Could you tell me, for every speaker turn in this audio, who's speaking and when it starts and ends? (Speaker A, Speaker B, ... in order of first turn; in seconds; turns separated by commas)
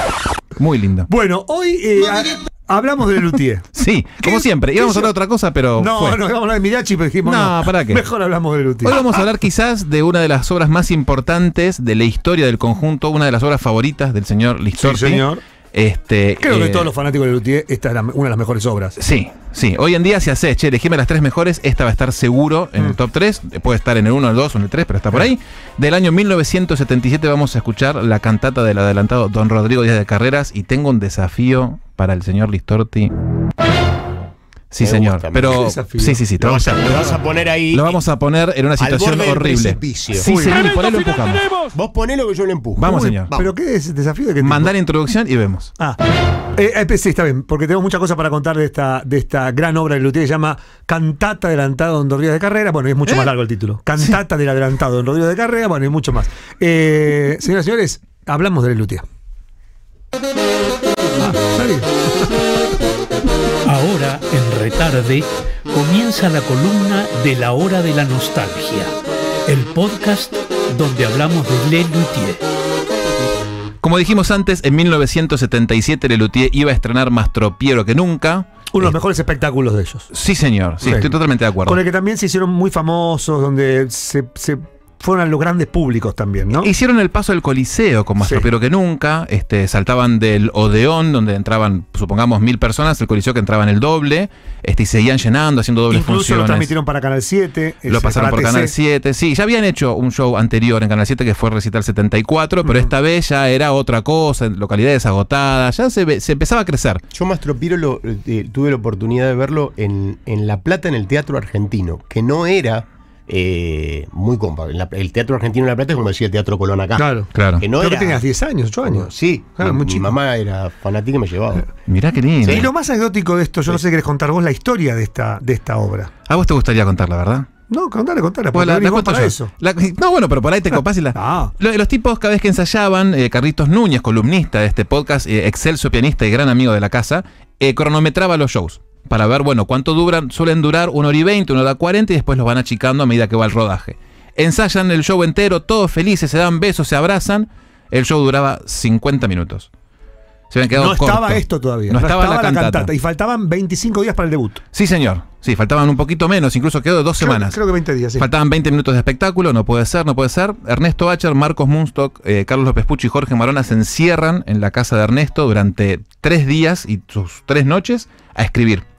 Speaker A: 0.6-1.1, Speaker B: 1.1-3.6, Speaker A: 3.7-6.2, Speaker B: 4.2-5.1, Speaker B: 5.8-9.0, Speaker A: 7.2-8.0, Speaker A: 8.8-16.9, Speaker B: 14.8-15.4, Speaker B: 16.4-19.0, Speaker A: 19.0-33.1, Speaker A: 34.7-36.8, Speaker C: 34.8-35.7, Speaker B: 35.5-37.1, Speaker C: 36.4-38.0, Speaker A: 37.7-41.5, Speaker C: 38.8-40.7, Speaker B: 40.1-40.6, Speaker C: 41.7-43.5, Speaker A: 42.8-43.3, Speaker B: 43.3-44.7, Speaker A: 44.4-45.7, Speaker B: 46.5-59.0, Speaker B: 61.1-61.9, Speaker D: 63.6-68.9, Speaker D: 69.5-72.4, Speaker A: 73.8-78.9, Speaker B: 78.7-80.1, Speaker A: 80.1-81.8, Speaker B: 80.8-81.1, Speaker B: 81.6-86.7, Speaker A: 86.6-96.7, Speaker B: 88.2-88.5, Speaker B: 95.9-98.7, Speaker A: 97.8-107.0, Speaker C: 107.1-118.2, Speaker B: 117.0-120.1, Speaker A: 117.3-117.6, Speaker C: 118.8-121.7, Speaker A: 121.9-122.7, Speaker C: 122.4-122.7, Speaker B: 122.5-126.1, Speaker A: 126.3-127.5, Speaker B: 127.7-129.5, Speaker A: 128.5-149.7, Speaker B: 131.1-131.5, Speaker A: 150.5-152.9, Speaker B: 150.7-154.6, Speaker A: 154.7-157.6, Speaker B: 157.2-158.3, Speaker A: 158.2-168.8